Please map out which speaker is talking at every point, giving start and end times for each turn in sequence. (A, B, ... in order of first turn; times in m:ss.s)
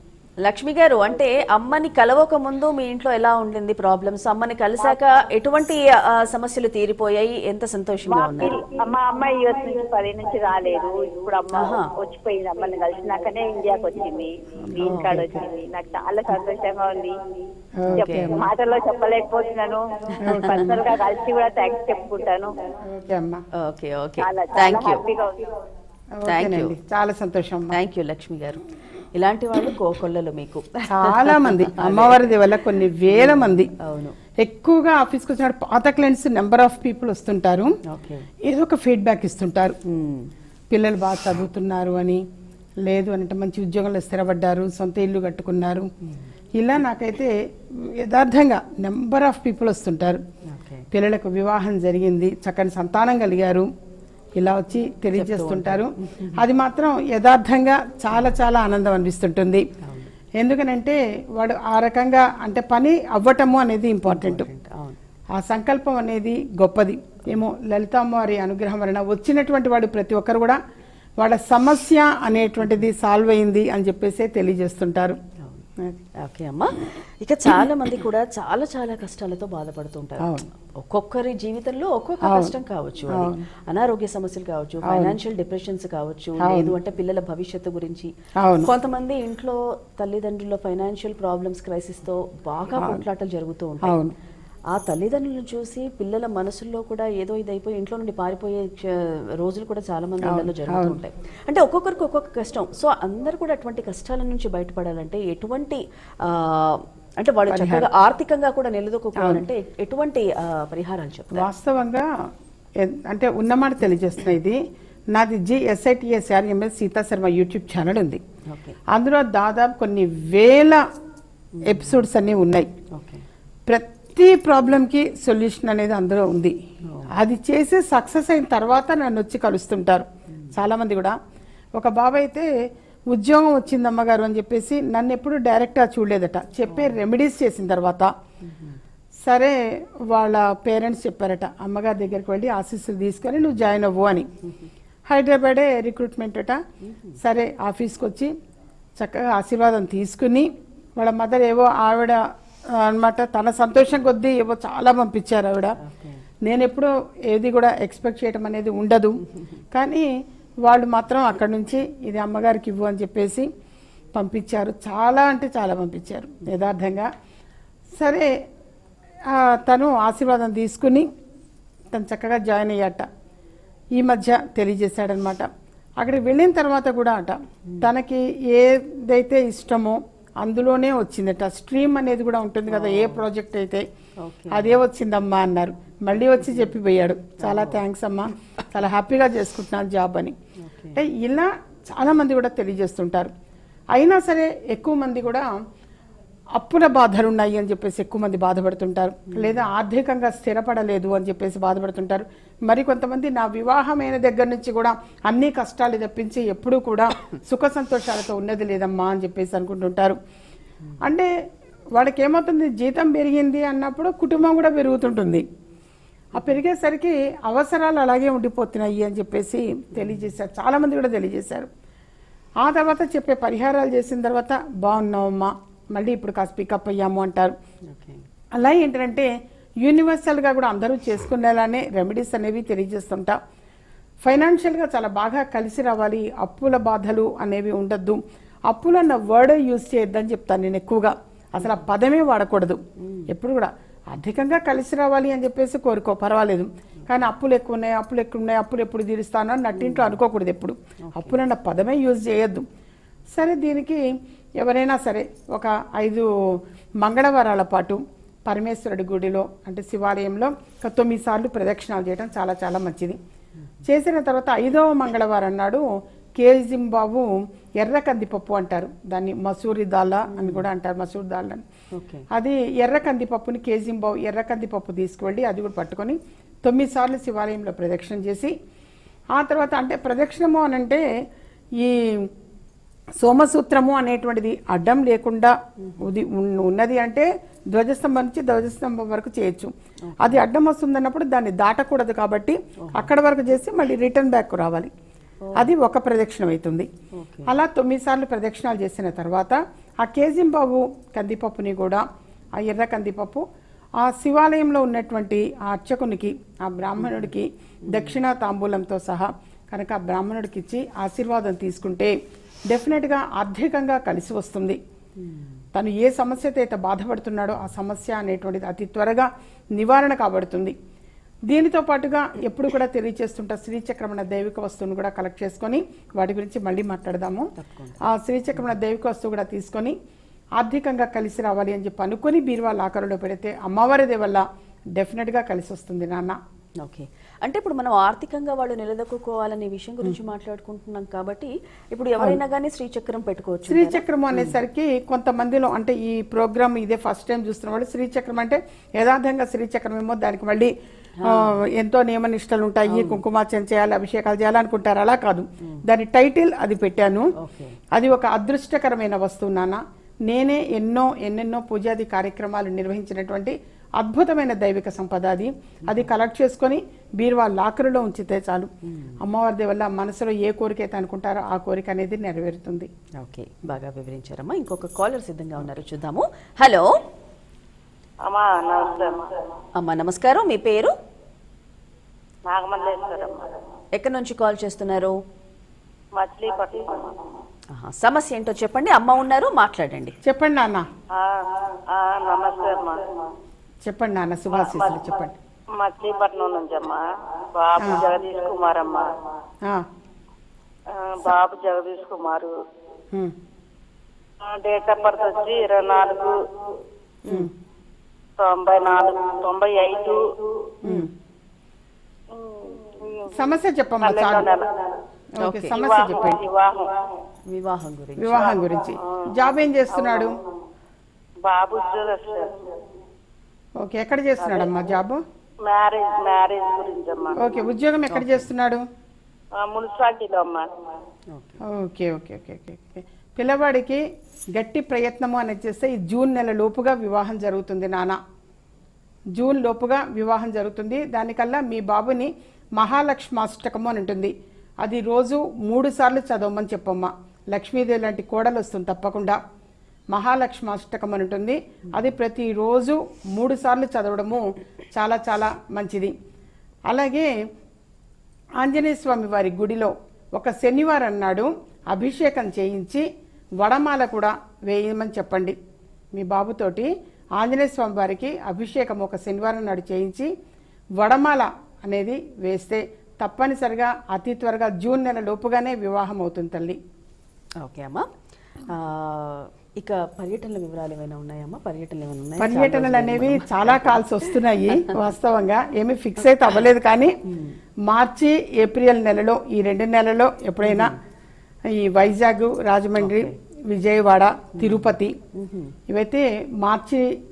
0:00.4-0:08.5 A
0:08.1-0:17.2 B
0:11.5-0:11.9 A
0:14.6-0:15.4 C
0:14.8-0:15.3 A
0:17.8-0:18.4 C
0:17.9-0:18.3 A
0:18.0-0:22.6 B
0:20.2-0:20.7 A
0:20.2-0:20.8 C
0:22.8-0:23.4 C
0:23.5-0:25.0 A
0:24.2-0:25.5 B
0:26.2-0:27.7 C
0:26.2-0:26.8 A
0:27.7-0:28.6 A
0:29.1-0:32.3 A
0:30.9-0:33.7 C
0:33.1-0:34.2 A
0:34.4-0:37.7 C
0:37.8-0:38.3 A
0:38.4-0:39.8 C
0:39.8-0:40.3 A
0:40.7-0:42.2 C
0:42.8-0:45.9 C
0:46.0-0:46.3 A
0:46.6-0:50.2 C
0:50.4-0:50.8 A
0:50.9-0:53.7 C
0:54.3-0:59.7 C
0:55.1-0:56.4 A
0:59.8-1:00.1 A
1:00.4-1:04.5 C
1:04.1-1:05.0 A
1:05.3-1:10.6 C
1:11.2-1:15.2 C
1:15.4-1:28.1 A
1:20.2-1:20.4 C
1:22.2-1:22.5 C
1:23.1-1:23.4 C
1:24.8-1:25.2 C
1:26.4-1:26.7 C
1:28.4-1:28.7 C
1:28.6-1:33.9 A
1:32.7-1:33.0 C
1:33.8-1:34.1 C
1:34.7-1:51.5 A
1:40.2-1:41.0 C
1:47.5-1:47.9 C
1:49.2-1:49.4 C
1:51.3-1:52.1 C
1:52.8-1:54.6 C
1:55.1-1:58.2 C
1:58.5-1:58.8 A
1:58.9-2:00.8 C
2:01.5-2:02.0 A
2:01.6-2:02.7 C
2:02.9-2:03.2 A
2:03.7-2:06.6 C
2:06.8-2:07.1 A
2:07.1-2:11.2 C
2:11.8-2:12.5 C
2:13.1-2:18.1 C
2:16.7-2:17.0 A
2:18.4-2:18.8 A
2:19.2-2:19.6 C
2:20.1-2:24.3 C
2:24.4-2:24.7 A
2:25.1-2:26.6 C
2:26.8-2:27.2 A
2:27.2-2:28.3 C
2:29.0-2:35.8 C
2:35.8-2:36.2 A
2:36.4-2:40.1 C
2:39.3-2:39.6 A
2:40.6-2:43.5 C
2:44.1-2:47.1 C
2:47.9-2:48.3 C
2:49.3-2:51.1 C
2:51.9-2:53.1 C
2:54.0-3:03.8 C
3:02.7-3:03.2 A
3:04.2-3:04.8 A
3:04.5-3:10.3 C
3:07.4-3:07.8 A
3:10.6-3:11.0 A
3:10.9-3:13.3 C
3:13.9-3:15.5 C
3:16.6-3:30.2 C
3:19.3-3:19.6 A
3:31.0-3:31.3 C
3:31.9-3:35.4 C
3:36.3-3:41.7 C
3:40.0-3:40.3 A
3:42.6-3:47.6 C
3:47.9-3:48.2 A
3:48.6-3:49.3 C
3:49.8-3:53.4 C
3:54.2-4:12.6 C
4:03.0-4:03.3 A
4:09.7-4:10.2 A
4:11.0-4:11.4 A
4:13.3-4:14.0 C
4:14.6-4:23.2 C
4:23.8-4:25.8 C
4:26.4-4:31.6 C
4:30.3-4:30.7 A
4:31.9-4:32.3 A
4:32.3-4:38.5 C
4:39.3-4:41.0 C
4:41.8-4:42.3 C
4:43.2-4:54.9 C
4:45.8-4:46.1 A
4:50.0-4:50.4 A
4:52.8-4:53.1 A
4:55.4-4:55.7 A
4:55.6-4:56.9 C
4:57.1-4:57.5 A
4:57.4-5:02.0 C
5:02.6-5:03.4 C
5:04.0-5:12.2 C
5:07.0-5:07.2 A
5:07.9-5:08.2 A
5:12.7-5:14.8 C
5:15.2-5:15.6 A
5:15.7-5:20.8 C
5:21.5-5:27.5 C
5:27.6-5:28.0 A
5:28.0-5:30.0 C
5:30.6-5:36.4 C
5:36.8-5:44.6 A
5:43.7-5:50.7 C
5:51.2-5:51.6 A
5:51.2-5:57.3 C
5:52.9-5:53.2 A
5:57.4-5:57.8 A
5:57.9-6:08.7 C
6:08.8-6:09.2 A
6:09.2-6:12.9 C
6:13.2-6:17.0 A
6:18.2-6:19.3 D
6:19.8-6:20.9 A
6:22.5-6:23.5 D
6:24.0-6:25.2 A
6:26.1-6:27.2 D
6:27.7-6:30.2 A
6:30.2-6:30.9 C
6:31.1-6:33.1 D
6:33.8-6:35.4 C
6:34.5-6:35.1 D
6:35.8-6:37.0 D
6:37.5-6:39.1 D
6:37.8-6:38.0 C
6:40.9-6:42.5 D
6:44.4-6:46.4 D
6:48.4-6:50.2 D
6:50.8-6:51.1 C
6:52.3-6:53.3 D
6:53.3-6:54.5 C
6:54.0-6:54.9 D
6:55.4-6:56.4 C
6:55.4-6:55.8 A
6:55.7-6:57.0 D
6:57.5-6:58.5 A
6:58.2-7:00.4 C
6:58.5-6:59.3 D
6:59.9-7:00.4 D
7:01.4-7:02.7 D
7:03.8-7:05.2 C
7:04.4-7:04.7 D
7:05.6-7:07.4 D
7:07.4-7:08.8 C
7:08.1-7:08.5 A
7:09.6-7:10.7 D
7:11.3-7:11.6 A
7:11.7-7:14.0 C
7:14.5-7:18.2 C
7:19.3-7:29.4 C
7:30.1-7:36.1 C
7:36.9-7:37.3 C
7:38.6-7:43.1 C
7:43.6-7:45.6 C
7:46.1-7:50.3 C
7:51.0-7:56.8 C
7:57.6-7:58.1 A
7:58.7-8:04.9 A
8:02.4-8:07.2 C
8:07.2-8:07.6 A
8:07.8-8:10.9 C
8:10.6-8:11.0 A
8:11.7-8:15.2 C
8:13.0-8:13.3 A
8:14.6-8:15.7 A
8:15.9-8:17.1 C